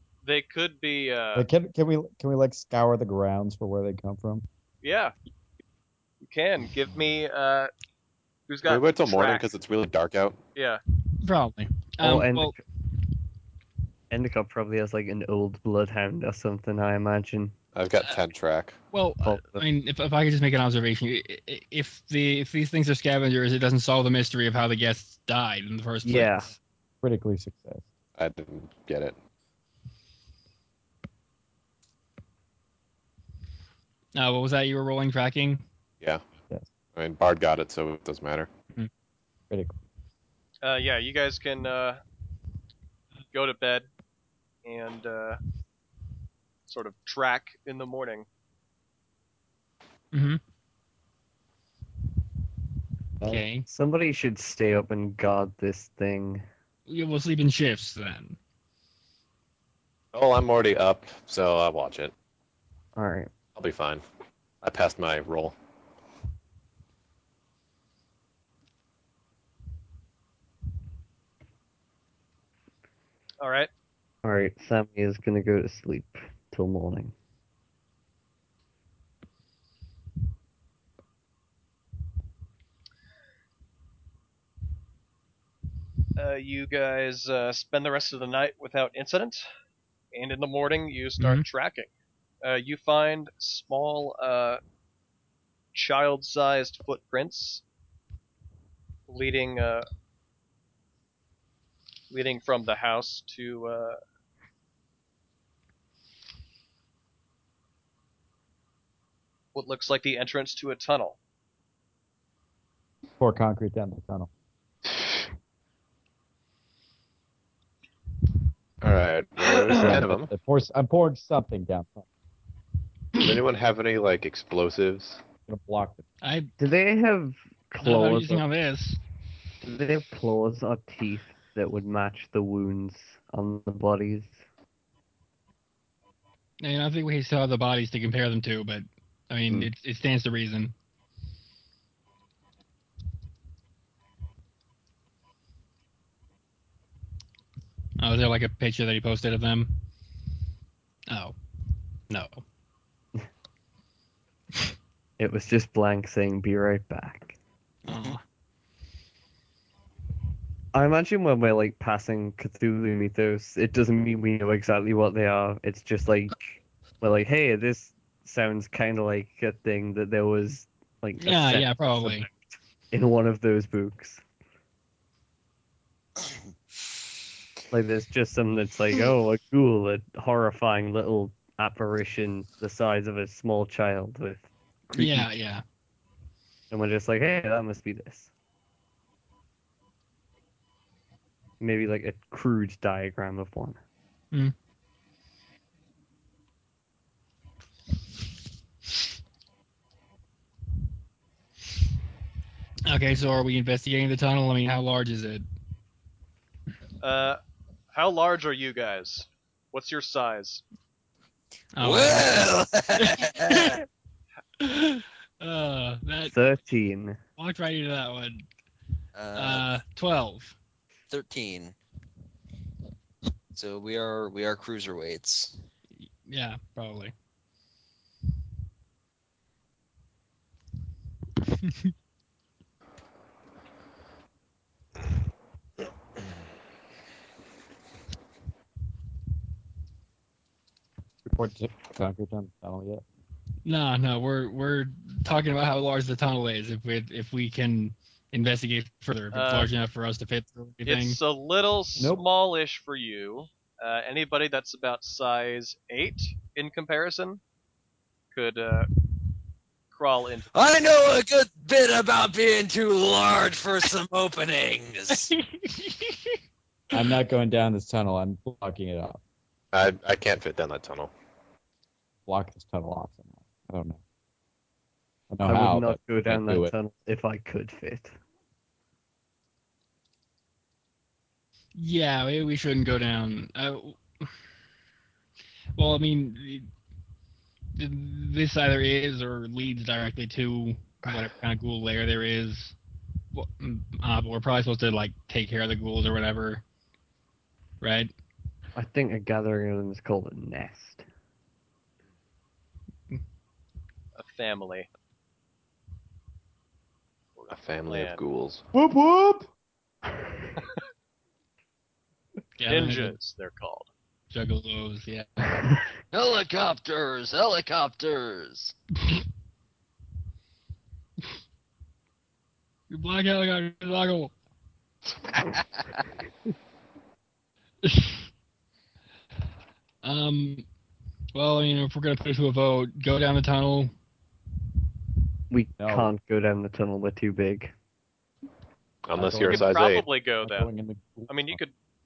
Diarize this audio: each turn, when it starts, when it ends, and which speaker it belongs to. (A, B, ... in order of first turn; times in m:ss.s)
0:00.2-0:01.5 A
0:01.3-0:04.4 B
0:04.8-0:05.1 A
0:06.2-0:07.7 A
0:08.5-0:09.5 A
0:08.6-0:10.4 C
0:10.5-0:10.8 A
0:11.2-0:12.5 D
0:12.0-0:12.6 E
0:14.1-0:17.5 E
0:17.7-0:18.8 C
0:18.9-0:26.5 D
0:19.2-0:19.6 E
0:26.0-0:26.5 E
0:27.0-0:27.9 B
0:28.2-0:29.2 C
0:34.1-0:35.6 D
0:36.9-0:38.5 C
0:39.5-0:39.8 B
0:40.6-0:42.0 A
0:43.3-0:43.9 A
0:44.6-0:45.4 A
0:46.7-0:48.2 A
0:50.1-0:50.4 D
0:53.2-0:53.6 D
0:53.3-0:56.4 E
0:56.9-0:58.4 D
1:00.1-1:02.1 C
1:03.0-1:03.3 E
1:03.6-1:04.0 C
1:04.6-1:05.5 C
1:13.4-1:13.7 A
1:14.2-1:17.1 E
1:26.2-1:29.4 A
1:30.1-1:31.9 A
1:31.2-1:31.4 D
1:32.4-1:34.6 A
1:35.7-1:37.6 A
1:39.1-1:39.8 A
1:42.1-1:44.0 A
1:49.5-1:51.2 A
1:53.2-1:54.3 B
1:58.8-2:00.3 C
1:59.7-2:02.0 B
2:03.2-2:05.2 C
2:05.5-2:06.0 B
2:06.2-2:06.5 D
2:06.6-2:08.4 E
2:07.8-2:09.0 D
2:09.6-2:14.4 E
2:16.6-2:20.7 D
2:28.0-2:29.7 D
2:31.1-2:31.3 D
2:32.1-2:32.4 D
2:35.2-2:37.4 E
2:37.9-2:38.2 F
2:37.9-2:38.2 D
2:40.7-2:54.2 E
2:51.2-2:52.3 D
2:57.7-3:05.3 E
3:05.0-3:05.6 D
3:06.7-3:08.3 E
3:11.6-3:13.8 E
3:22.9-3:25.4 D
3:27.0-3:27.4 A
3:27.9-3:30.6 A
3:31.8-3:33.8 D
3:31.8-3:33.8 F
3:34.6-3:36.3 D
3:36.2-3:37.2 E
3:37.4-3:38.4 D
3:39.1-3:39.7 F
3:39.3-3:40.5 D
3:41.1-3:41.8 F
3:43.5-3:45.5 F
3:46.0-3:47.1 D
3:51.5-3:51.9 D
4:01.2-4:03.0 B
4:03.6-4:11.2 D
4:09.3-4:09.7 A
4:10.8-4:17.4 A
4:12.0-4:12.2 B
4:18.3-4:18.9 A
4:19.9-4:20.5 A
4:20.5-4:25.3 F
4:25.2-4:26.3 D
4:26.9-4:29.2 B
4:29.7-4:31.1 C
4:32.2-4:34.0 B
4:35.3-4:36.7 B
4:35.4-4:38.1 E
4:41.7-4:44.3 D
4:45.8-4:46.7 D
4:47.7-4:52.8 D
4:53.3-4:56.6 D
4:57.8-4:58.1 D
4:58.8-5:01.0 E
5:04.2-5:04.9 A
5:07.4-5:08.2 A
5:07.5-5:08.6 C
5:08.7-5:09.5 B
5:12.6-5:13.2 D
5:12.7-5:13.9 A
5:14.3-5:15.6 D
5:16.1-5:18.7 F
5:22.9-5:24.3 D
5:27.8-5:28.3 D
5:30.0-5:30.6 D
5:31.3-5:33.9 D
5:35.5-5:37.7 E
5:35.8-5:36.1 B
5:39.0-5:40.0 C
5:39.1-5:39.7 B
5:39.4-5:40.7 A
5:40.4-5:41.6 B
5:41.3-5:41.7 A